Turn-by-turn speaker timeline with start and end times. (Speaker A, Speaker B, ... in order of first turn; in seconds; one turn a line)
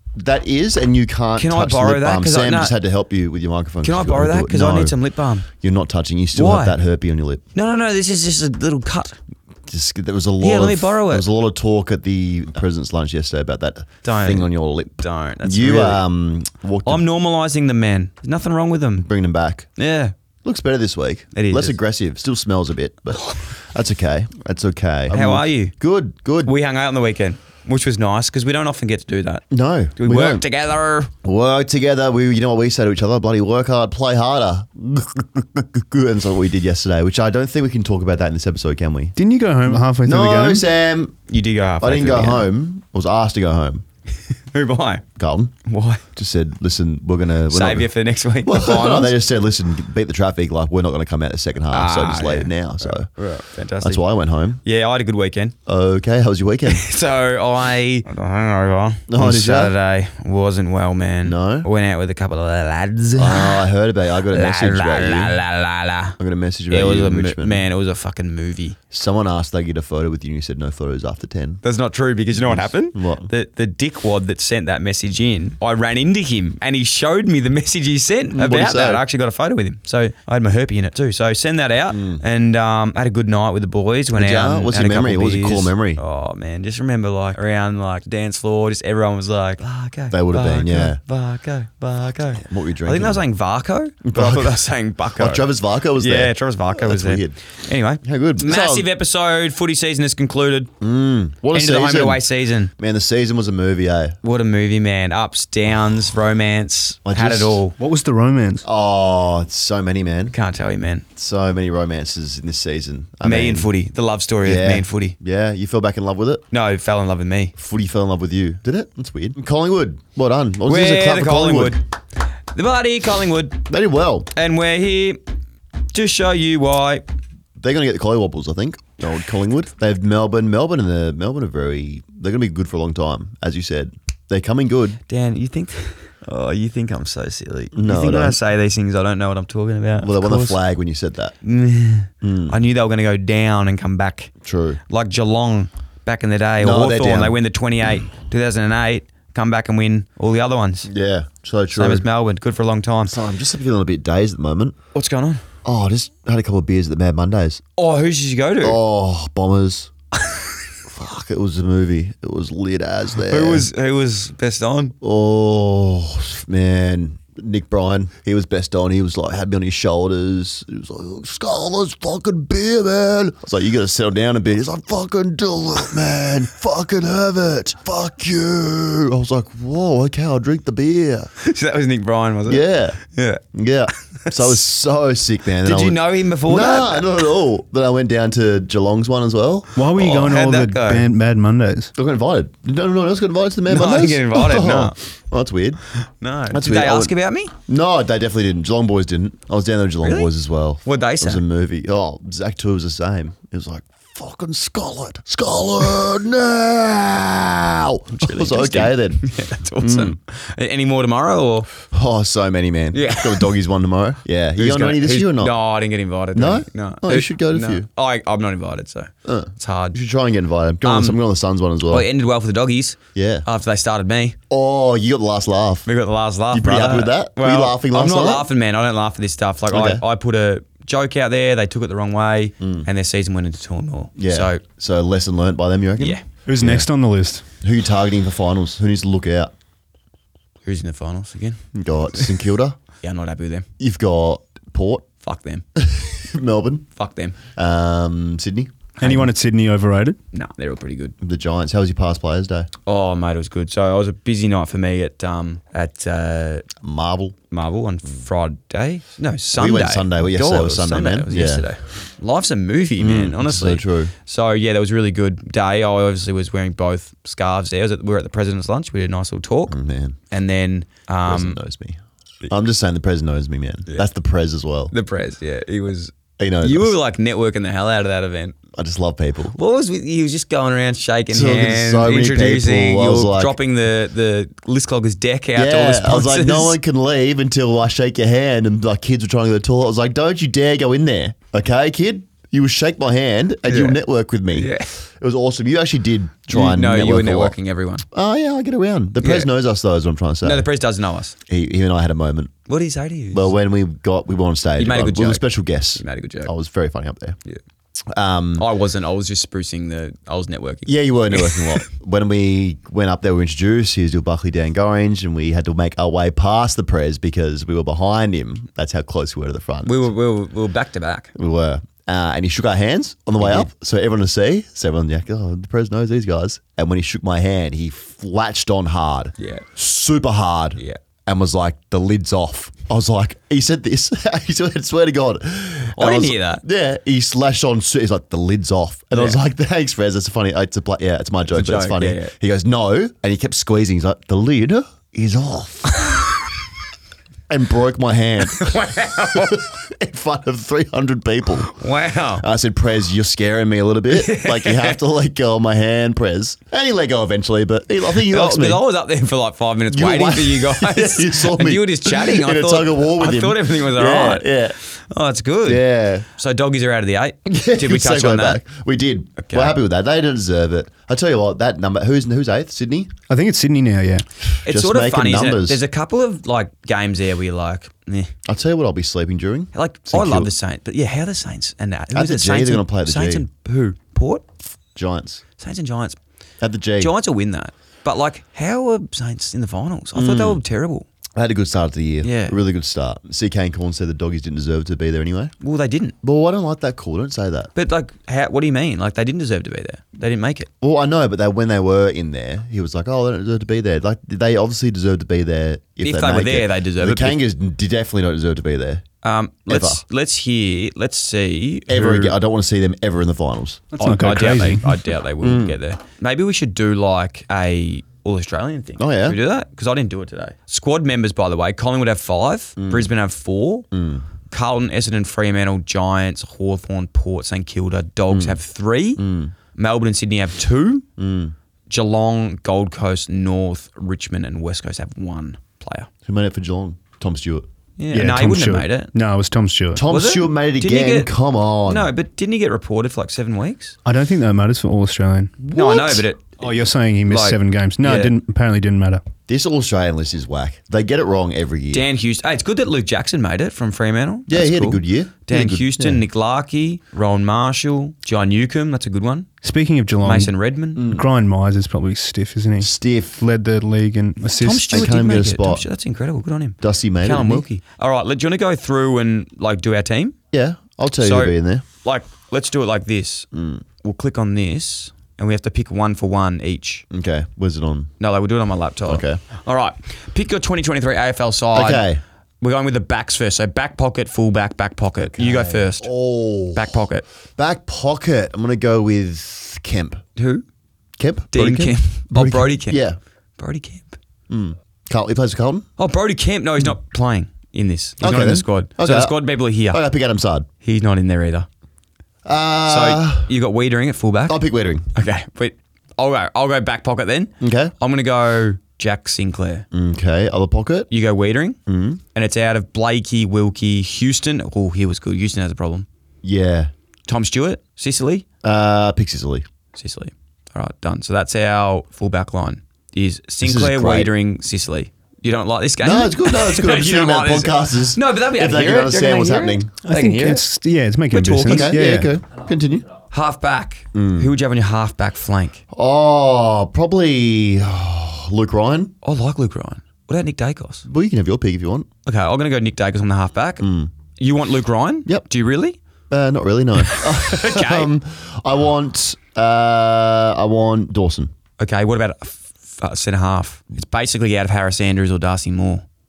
Speaker A: 0.1-5.0
Speaker B: 1.4-2.7
Speaker B: 3.8-5.5
Speaker A: 5.5-7.4
Speaker B: 6.3-6.8
Speaker B: 7.5-9.2
Speaker A: 9.7-17.1
Speaker B: 10.4-11.3
Speaker B: 14.0-16.0
Speaker B: 16.9-19.1
Speaker A: 19.0-19.7
Speaker B: 19.8-20.1
Speaker A: 20.4-26.5
Speaker B: 21.3-21.8
Speaker B: 25.1-25.8
Speaker B: 26.4-29.4
Speaker A: 29.5-30.5
Speaker B: 30.0-31.1
Speaker A: 31.2-39.1
Speaker C: 39.2-40.6
Speaker A: 39.7-41.2
Speaker B: 41.3-42.5
Speaker A: 41.8-43.8
Speaker B: 44.5-45.0
Speaker A: 45.2-45.5
Speaker B: 45.6-46.0
Speaker A: 46.1-47.9
Speaker B: 47.5-49.1
Speaker A: 48.4-53.1
Speaker B: 51.7-54.0
Speaker A: 53.8-54.6
Speaker B: 54.6-55.5
Speaker A: 55.7-56.9
Speaker B: 56.7-63.7
Speaker A: 59.1-59.8
Speaker A: 61.2-61.7
Speaker A: 63.1-65.4
Speaker B: 64.3-66.2
Speaker A: 66.2-67.7
Speaker B: 66.7-68.8
Speaker A: 68.9-71.6
Speaker B: 71.6-95.5
Speaker A: 72.4-73.3
Speaker A: 78.3-79.0
Speaker A: 81.9-82.2
Speaker A: 84.1-86.0
Speaker A: 90.1-91.0
Speaker A: 92.3-93.2
Speaker A: 94.0-94.6
Speaker A: 95.2-97.4
Speaker B: 96.0-100.7
Speaker A: 98.0-98.9
Speaker A: 100.8-102.2
Speaker B: 101.5-102.7
Speaker A: 102.8-104.2
Speaker B: 104.2-107.8
Speaker A: 107.0-107.6
Speaker C: 107.8-108.7
Speaker A: 108.6-110.3
Speaker B: 110.3-111.0
Speaker A: 111.2-113.7
Speaker B: 113.2-115.2
Speaker A: 114.4-116.4
Speaker B: 116.5-117.5
Speaker A: 117.6-121.8
Speaker B: 120.7-121.8
Speaker B: 122.5-123.7
Speaker A: 123.7-124.3
Speaker B: 124.3-125.2
Speaker B: 125.9-127.0
Speaker A: 127.6-135.0
Speaker B: 135.1-140.6
Speaker A: 137.7-138.4
Speaker A: 140.0-141.3
Speaker B: 141.4-144.3
Speaker A: 142.2-142.6
Speaker A: 144.4-144.8
Speaker B: 144.9-150.9
Speaker A: 146.6-147.4
Speaker A: 150.9-152.1
Speaker B: 151.7-153.2
Speaker A: 153.1-154.8
Speaker B: 154.9-155.4
Speaker A: 155.6-157.6
Speaker B: 157.8-158.8
Speaker A: 158.6-159.9
Speaker A: 160.9-163.7
Speaker B: 163.2-164.9
Speaker A: 165.0-181.3
Speaker B: 181.4-183.4
Speaker A: 182.5-183.0
Speaker A: 183.5-189.7
Speaker B: 184.2-184.5
Speaker B: 185.6-187.1
Speaker C: 189.8-191.9
Speaker B: 189.9-191.1
Speaker A: 192.0-195.8
Speaker B: 193.7-194.9
Speaker B: 196.2-197.5
Speaker A: 196.5-197.1
Speaker A: 197.7-210.2
Speaker B: 200.0-200.3
Speaker B: 200.8-201.4
Speaker B: 208.2-211.7
Speaker A: 211.8-215.6
Speaker B: 212.9-213.5
Speaker B: 214.6-220.0
Speaker A: 216.3-217.9
Speaker A: 219.2-222.1
Speaker B: 220.8-221.2
Speaker B: 221.9-224.4
Speaker A: 223.2-223.5
Speaker A: 224.5-225.9
Speaker B: 225.9-234.6
Speaker A: 226.5-228.5
Speaker A: 229.7-230.0
Speaker A: 232.6-232.9
Speaker A: 234.2-236.9
Speaker B: 236.0-236.2
Speaker C: 236.5-237.4
Speaker A: 237.6-239.5
Speaker B: 240.7-241.6
Speaker A: 241.7-242.8
Speaker B: 243.0-243.7
Speaker A: 243.8-245.1
Speaker B: 245.2-245.6
Speaker A: 245.8-246.9
Speaker B: 247.0-247.4
Speaker A: 247.6-249.1
Speaker C: 249.0-250.2
Speaker B: 250.3-251.2
Speaker A: 251.2-252.7
Speaker B: 252.9-256.7
Speaker A: 256.8-257.4
Speaker B: 257.5-269.8
Speaker A: 259.6-261.7
Speaker A: 263.0-264.1
Speaker A: 269.7-270.2
Speaker B: 270.3-271.6
Speaker A: 271.3-274.9
Speaker B: 274.9-278.6
Speaker A: 276.4-277.0
Speaker A: 278.7-279.6
Speaker B: 279.6-286.8
Speaker A: 281.3-283.6
Speaker A: 285.6-297.6
Speaker B: 293.7-294.0
Speaker B: 294.5-294.9
Speaker B: 296.5-298.1
Speaker A: 298.1-300.7
Speaker B: 299.2-299.5
Speaker B: 300.4-301.4
Speaker A: 301.5-302.5
Speaker B: 302.7-303.5
Speaker A: 303.3-307.4
Speaker B: 304.8-306.5
Speaker A: 308.1-308.7
Speaker B: 308.6-311.8
Speaker A: 310.9-320.1
Speaker B: 319.9-321.3
Speaker A: 321.4-346.0
Speaker B: 323.4-323.7
Speaker B: 329.4-329.7
Speaker B: 336.0-336.6
Speaker B: 341.5-342.3
Speaker A: 347.5-351.8
Speaker B: 348.5-349.6
Speaker B: 351.7-352.4
Speaker A: 352.4-358.8
Speaker B: 354.1-355.0
Speaker B: 358.2-365.8
Speaker A: 359.9-364.8
Speaker A: 365.6-366.3
Speaker B: 366.3-368.6
Speaker A: 367.5-373.1
Speaker B: 369.4-369.8
Speaker C: 373.3-374.2
Speaker A: 374.4-375.8
Speaker B: 374.6-378.3
Speaker A: 378.5-380.5
Speaker B: 379.7-384.4
Speaker A: 382.1-383.5
Speaker A: 384.9-385.4
Speaker B: 385.6-386.2
Speaker A: 386.6-387.1
Speaker B: 387.0-391.1
Speaker A: 390.1-390.6
Speaker A: 391.4-395.5
Speaker B: 392.2-392.6
Speaker B: 395.6-396.1
Speaker A: 396.2-397.7
Speaker B: 397.8-400.7
Speaker A: 400.8-409.1
Speaker B: 406.0-407.4
Speaker B: 409.2-412.4
Speaker A: 409.7-410.0
Speaker A: 411.9-413.9
Speaker B: 414.0-423.9
Speaker C: 414.0-414.9
Speaker A: 415.4-415.8
Speaker A: 419.0-419.4
Speaker A: 422.8-423.1
Speaker A: 423.9-424.2
Speaker B: 424.5-429.2
Speaker A: 428.3-428.6
Speaker A: 429.2-429.5
Speaker B: 429.7-431.1
Speaker A: 431.2-431.5
Speaker B: 431.9-436.1
Speaker A: 436.3-437.6
Speaker B: 438.0-439.1
Speaker C: 438.1-440.0
Speaker A: 439.9-442.1
Speaker B: 440.1-441.3
Speaker B: 441.9-444.0
Speaker C: 444.1-445.7
Speaker B: 445.7-446.6
Speaker A: 445.7-446.2
Speaker C: 446.6-449.2
Speaker B: 447.3-448.3
Speaker A: 449.5-452.1
Speaker B: 451.9-459.5
Speaker A: 454.5-456.2
Speaker C: 459.6-465.1
Speaker B: 460.2-461.1
Speaker A: 461.0-461.3
Speaker A: 462.8-463.4
Speaker B: 464.6-470.4
Speaker A: 464.9-465.9
Speaker A: 466.8-467.7
Speaker A: 470.5-471.9
Speaker B: 471.2-473.5
Speaker A: 473.5-473.8
Speaker B: 474.0-477.1
Speaker A: 477.1-478.1
Speaker B: 478.2-482.1
Speaker A: 479.1-479.4
Speaker A: 481.7-482.2
Speaker B: 482.6-486.1
Speaker A: 485.2-490.2
Speaker B: 486.7-487.2
Speaker B: 490.4-490.6
Speaker A: 491.2-493.2
Speaker B: 491.5-493.0
Speaker B: 493.6-494.2
Speaker A: 494.5-495.9
Speaker B: 496.0-500.0
Speaker A: 498.2-500.7
Speaker B: 500.8-501.7
Speaker A: 502.4-503.5
Speaker B: 502.9-504.6
Speaker A: 504.5-505.1
Speaker B: 505.1-509.9
Speaker A: 507.6-507.9
Speaker A: 509.9-511.1
Speaker B: 511.1-511.8
Speaker A: 511.9-512.2
Speaker B: 512.3-516.1
Speaker A: 516.4-516.9
Speaker B: 517.3-518.5
Speaker A: 518.6-519.6
Speaker B: 519.9-530.6
Speaker A: 523.6-524.3
Speaker A: 526.0-530.0
Speaker C: 530.0-532.3
Speaker B: 531.3-531.9
Speaker A: 531.7-533.1
Speaker B: 533.3-535.8
Speaker A: 534.1-534.5
Speaker A: 535.9-539.1
Speaker B: 539.2-541.0
Speaker A: 541.0-542.1
Speaker B: 542.3-546.0
Speaker A: 543.8-544.1
Speaker A: 546.3-551.5
Speaker B: 547.0-548.1
Speaker B: 551.8-556.0